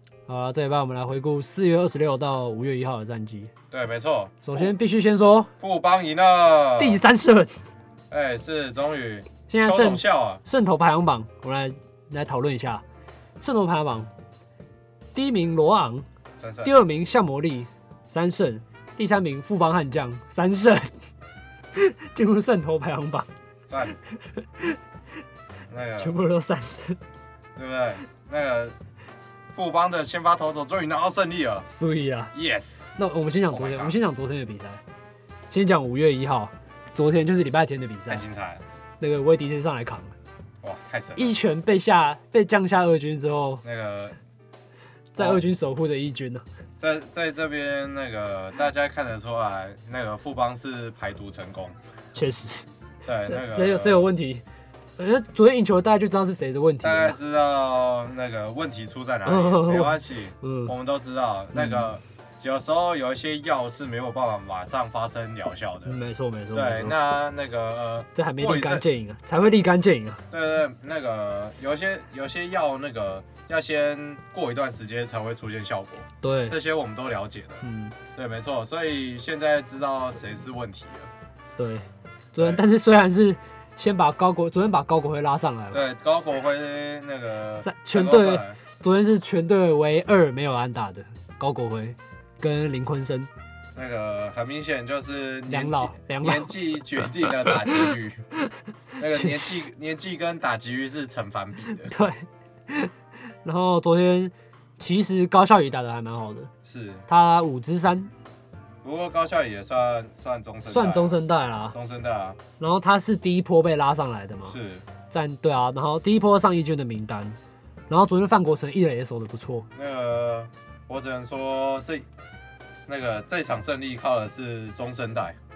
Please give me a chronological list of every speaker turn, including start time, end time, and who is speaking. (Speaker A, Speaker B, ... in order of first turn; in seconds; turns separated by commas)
Speaker A: 0.3-3.5, Speaker B: 3.7-4.7, Speaker A: 4.4-5.5, Speaker B: 5.6-7.0, Speaker A: 6.8-7.6, Speaker B: 8.1-10.4, Speaker A: 9.5-12.8, Speaker A: 13.4-14.1, Speaker A: 15.1-16.0, Speaker B: 16.4-16.7, Speaker A: 16.6-20.9, Speaker A: 21.7-23.3, Speaker B: 23.7-24.0, Speaker A: 24.3-24.8, Speaker B: 25.7-26.2, Speaker A: 26.0-27.0, Speaker B: 27.6-28.8, Speaker B: 29.5-31.6, Speaker A: 31.6-32.3, Speaker B: 32.3-32.9, Speaker A: 33.0-34.8, Speaker B: 33.5-34.0, Speaker A: 35.5-38.2, Speaker B: 38.1-38.6, Speaker A: 39.0-40.1, Speaker B: 40.6-41.4, Speaker A: 41.2-43.6, Speaker B: 43.6-44.2, Speaker A: 45.1-46.4, Speaker B: 45.2-45.4, Speaker B: 46.8-51.8, Speaker A: 52.1-52.7, Speaker B: 53.0-54.1, Speaker A: 53.3-54.4, Speaker A: 55.0-57.2, Speaker B: 56.8-66.0, Speaker A: 59.2-60.7, Speaker A: 61.5-61.9, Speaker A: 65.8-67.0, Speaker B: 66.5-68.8, Speaker A: 68.1-70.2, Speaker B: 70.3-77.6, Speaker A: 76.2-76.5, Speaker A: 77.6-77.9, Speaker B: 78.1-81.1, Speaker A: 81.6-85.8, Speaker B: 82.3-82.6, Speaker B: 85.7-88.6, Speaker A: 87.6-93.3, Speaker B: 93.7-98.2, Speaker A: 95.5-96.5, Speaker A: 97.4-97.9, Speaker A: 98.4-99.7, Speaker B: 99.0-101.9, Speaker A: 101.7-102.9, Speaker A: 103.4-106.5, Speaker B: 106.6-107.0, Speaker A: 107.1-108.1, Speaker B: 108.8-111.2, Speaker A: 110.7-111.8, Speaker B: 111.7-112.4, Speaker A: 112.6-114.5, Speaker B: 114.5-114.8, Speaker A: 115.1-117.4, Speaker A: 117.9-119.7, Speaker B: 119.7-122.0, Speaker B: 122.9-125.4